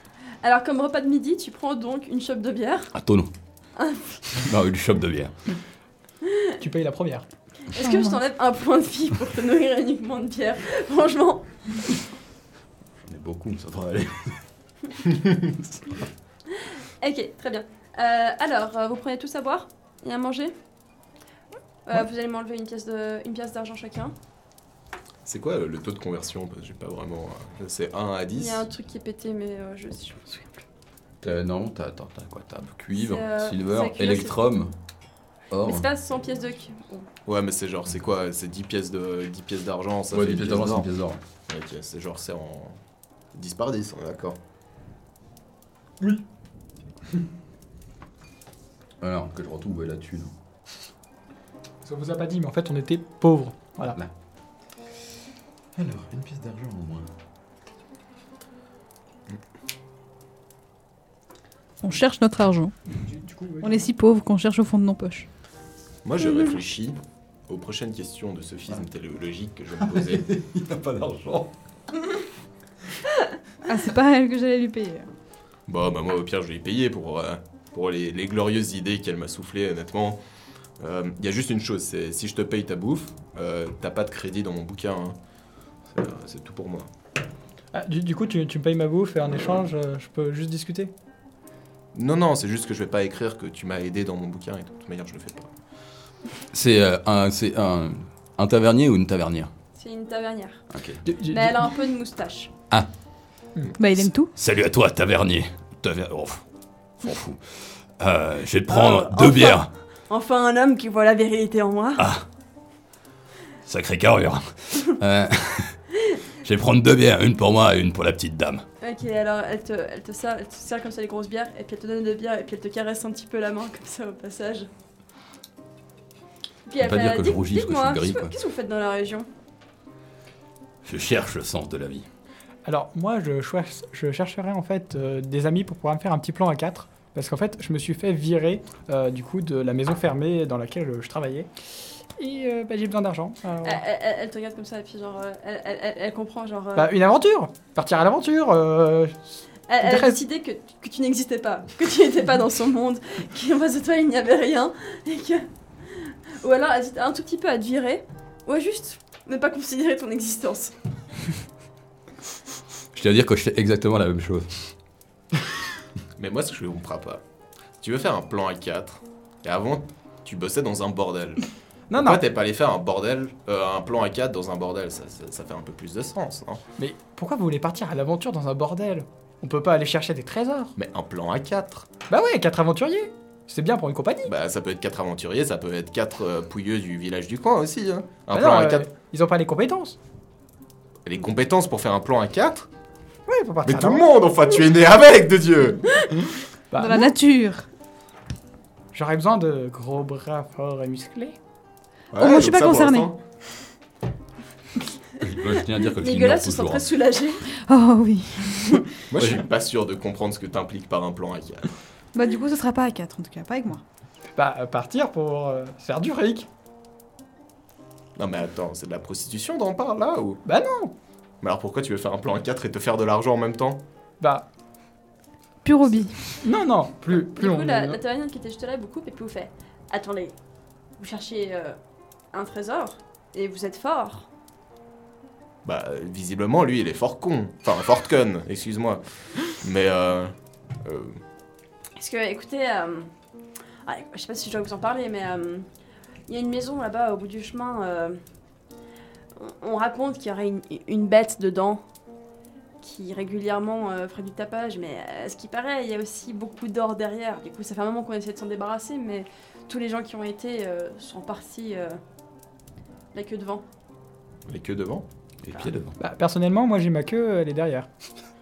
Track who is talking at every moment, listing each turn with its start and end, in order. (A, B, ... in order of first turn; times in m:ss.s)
0:00.4-0:02.9 A
0:02.9-0:03.3 B
0:03.8-0:04.2 A
0:04.3-0:05.3 B
0:06.2-0:06.5 A
0:06.6-0:07.3 C
0:07.7-0:11.6 A
0:07.8-0:08.2 D
0:13.0-0:14.4 B
0:15.5-0:16.0 B
0:16.6-0:20.5 A
0:21.9-0:24.1 A
0:25.2-0:28.6 E
0:28.3-0:30.6 A
0:31.2-0:34.7 B
0:32.9-0:34.4 A
0:35.5-0:35.8 B
0:35.6-0:37.1 A
0:37.2-0:40.9 E
0:40.1-0:41.2 B
0:41.5-0:42.8 E
0:43.3-0:44.4 E
0:49.0-0:50.3 B
0:51.8-0:54.0 C
0:55.7-0:57.1 B
1:01.8-1:02.7 D
1:03.0-1:03.9 C
1:03.6-1:05.3 D
1:06.0-1:10.3 E
1:09.8-1:11.5 B
1:13.6-1:15.1 D
1:15.7-1:20.2 E
1:20.8-1:25.2 E
1:25.9-1:26.9 E
1:27.7-1:30.9 C
1:31.9-1:35.5 E
1:36.5-1:39.5 B
1:39.7-1:40.6 A
1:40.7-1:41.0 B
1:41.0-1:41.7 C
1:41.2-1:42.5 A
1:43.8-1:44.3 D
1:44.3-1:46.4 B
1:47.0-1:49.7 B
1:48.7-1:52.1 A
1:52.0-1:52.2 B
1:53.6-1:55.8 B
1:56.4-1:58.6 B
1:58.8-2:04.7 A
2:06.6-2:09.3 A
2:06.8-2:08.3 B
2:10.8-2:12.1 B
2:12.6-2:21.5 C
2:22.2-2:23.8 C
2:23.6-2:26.9 A
2:26.8-2:30.2 C
2:29.7-2:40.7 A
2:42.9-2:44.7 B
2:46.2-2:47.2 E
2:47.8-2:56.6 E
2:51.9-2:52.2 C
2:56.8-3:00.7 C
3:00.8-3:01.9 E
3:02.1-3:04.3 C
3:04.3-3:08.9 E
3:08.3-3:10.0 C
3:11.0-3:12.7 E
3:13.3-3:14.1 C
3:13.6-3:16.0 E
3:16.7-3:17.1 C
3:16.8-3:17.6 D
3:18.9-3:21.4 C
3:22.1-3:23.2 E
3:22.1-3:23.1 D
3:25.2-3:26.8 B
3:25.9-3:27.5 A
3:27.5-3:29.0 D
3:29.1-3:31.7 E
3:29.2-3:29.4 B
3:32.1-3:33.8 D
3:34.4-3:36.5 C
3:38.2-3:40.4 E
3:40.4-3:40.9 C
3:41.4-3:43.8 E
3:44.2-3:44.4 C
3:45.6-3:46.4 D
3:46.4-3:48.0 C
3:47.1-3:50.4 A
3:51.0-3:51.8 A
3:52.3-3:54.3 A
3:55.6-4:01.2 E
4:02.0-4:03.1 A
4:03.8-4:05.6 A
4:06.3-4:08.2 A
4:09.4-4:11.8 A
4:12.8-4:22.0 A
4:23.1-4:23.6 A
4:24.5-4:25.0 E
4:25.4-4:26.0 B
4:26.0-4:27.9 C